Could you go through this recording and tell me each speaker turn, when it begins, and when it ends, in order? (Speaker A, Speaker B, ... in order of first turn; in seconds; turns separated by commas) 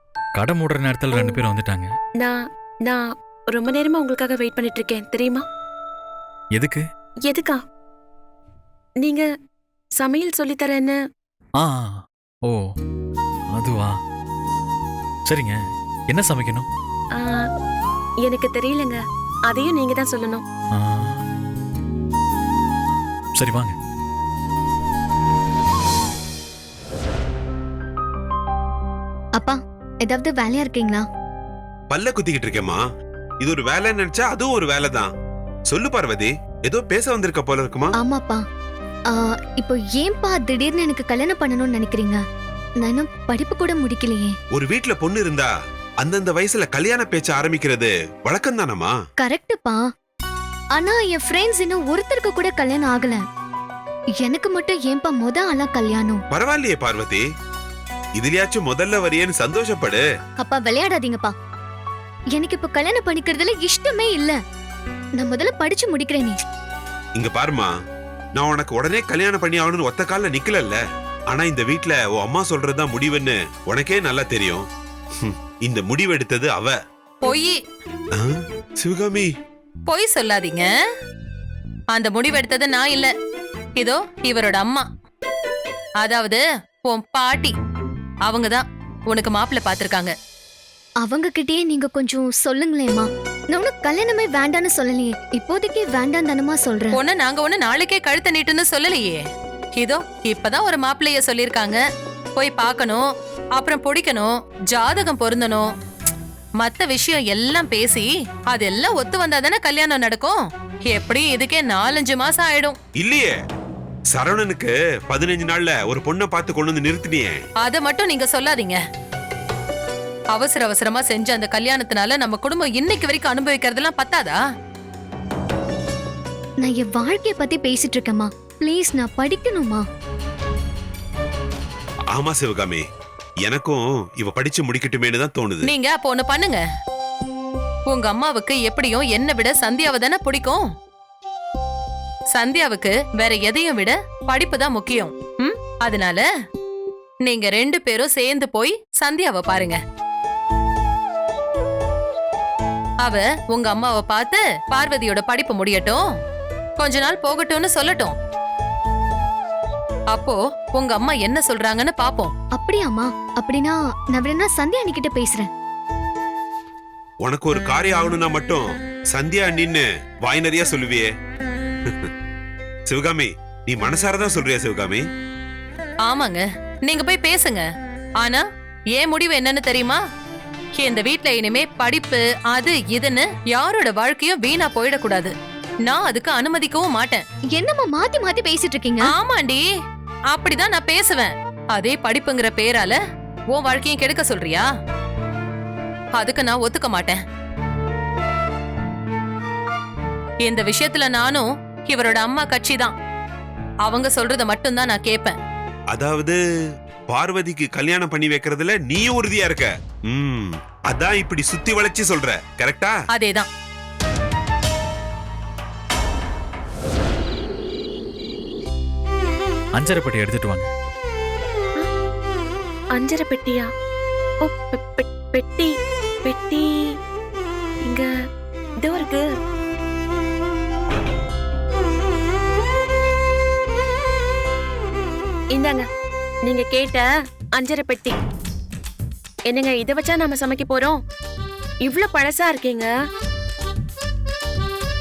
Speaker A: 0.4-1.9, Speaker B: 2.9-5.4, Speaker A: 6.5-6.8, Speaker B: 7.3-7.6, Speaker B: 10.0-10.9, Speaker A: 11.6-12.6, Speaker A: 13.5-13.9, Speaker A: 15.3-15.6, Speaker A: 16.1-16.7, Speaker B: 18.2-19.0, Speaker B: 19.5-20.4, Speaker A: 20.7-21.2, Speaker A: 23.4-23.7, Speaker C: 29.4-31.0, Speaker D: 31.9-32.8, Speaker D: 33.4-35.1, Speaker D: 35.7-37.9, Speaker C: 38.0-38.4, Speaker C: 39.1-42.2, Speaker C: 42.8-44.3, Speaker D: 44.6-45.5, Speaker D: 46.0-48.9, Speaker C: 49.2-49.8, Speaker C: 50.7-53.2, Speaker C: 54.2-56.2, Speaker D: 56.3-57.2, Speaker D: 58.2-60.0, Speaker C: 60.4-61.3, Speaker C: 62.3-64.4, Speaker C: 65.2-66.4, Speaker D: 67.2-67.7, Speaker D: 68.4-70.8, Speaker D: 71.3-74.6, Speaker D: 75.3-76.7, Speaker E: 77.2-77.5, Speaker D: 78.8-79.3, Speaker E: 79.9-80.7, Speaker E: 81.9-83.1, Speaker E: 83.8-84.9, Speaker E: 86.0-87.5, Speaker E: 88.3-90.1, Speaker C: 91.0-97.0, Speaker E: 96.9-99.2, Speaker E: 99.8-101.8, Speaker E: 102.4-103.0, Speaker E: 103.6-105.7, Speaker E: 106.6-112.8, Speaker D: 113.0-113.3, Speaker D: 114.1-117.4, Speaker E: 117.6-118.8, Speaker E: 120.3-124.4, Speaker C: 126.6-129.8, Speaker D: 132.2-132.8, Speaker D: 133.5-135.6, Speaker E: 135.6-136.6, Speaker E: 137.9-140.6, Speaker E: 142.3-146.2, Speaker E: 147.2-149.8, Speaker E: 153.0-156.0, Speaker E: 156.8-158.1, Speaker E: 160.1-162.3, Speaker C: 162.5-165.5, Speaker D: 167.2-171.1, Speaker D: 172.9-175.0, Speaker E: 176.1-177.7, Speaker E: 178.9-180.0, Speaker E: 180.8-185.3, Speaker E: 185.8-187.2, Speaker C: 187.5-189.1, Speaker E: 189.1-189.6, Speaker E: 190.3-193.0, Speaker E: 193.5-194.7, Speaker E: 196.2-197.2, Speaker E: 200.4-202.9, Speaker E: 203.8-205.3, Speaker D: 205.9-206.3, Speaker D: 207.1-212.9, Speaker E: 213.1-213.5, Speaker A: 219.8-220.7, Speaker B: 222.9-223.7, Speaker B: 224.4-225.7, Speaker B: 226.2-226.6, Speaker B: 228.8-229.2, Speaker B: 235.5-235.8, Speaker B: 236.4-237.0, Speaker B: 237.6-238.2, Speaker B: 239.5-241.0, Speaker B: 241.8-242.9